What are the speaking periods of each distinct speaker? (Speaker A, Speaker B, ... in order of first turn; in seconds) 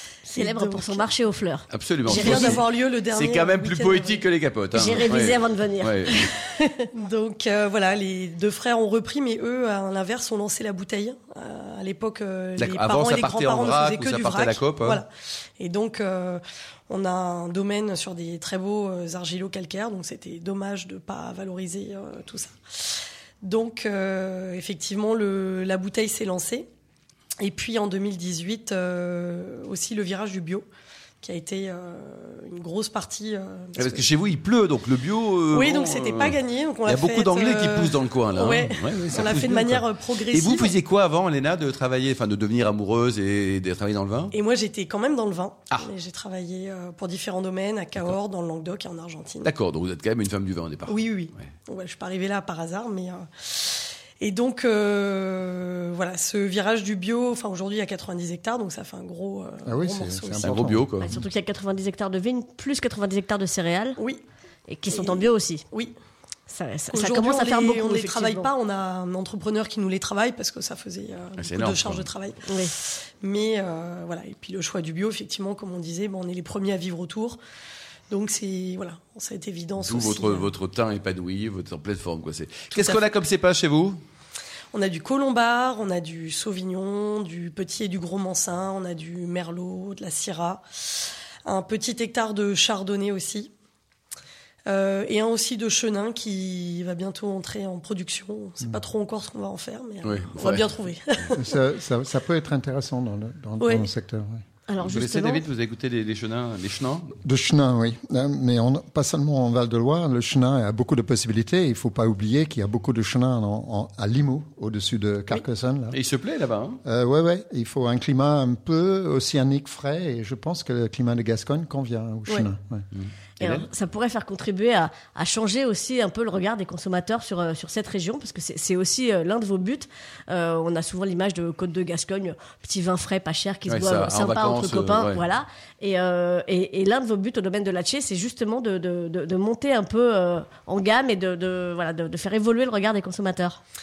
Speaker A: 0.3-2.6, 4.7-6.9, 61.0-64.0, 64.7-65.6, 66.5-68.5, 72.5-72.7, 104.7-105.4, 123.4-143.6
Speaker B: 0.3-1.1, 2.0-4.2, 7.0-26.7, 27.4-30.7, 31.2-34.1, 35.5-40.8, 44.3-49.5, 50.9-60.7, 64.9-65.9, 66.9-77.4, 78.1-80.5, 82.7-83.0, 84.7-90.8, 91.5-93.5, 94.7-101.5, 103.6-103.9
Speaker C: 1.7-6.2, 12.6-15.0, 33.8-44.3, 49.4-51.0, 60.4-61.2, 71.4-72.1, 79.8-84.0, 100.0-100.7, 104.8-107.2, 115.9-116.8, 123.0-123.7, 133.7-135.2
Speaker D: 59.7-60.9, 101.3-104.4, 107.2-116.0, 116.8-122.8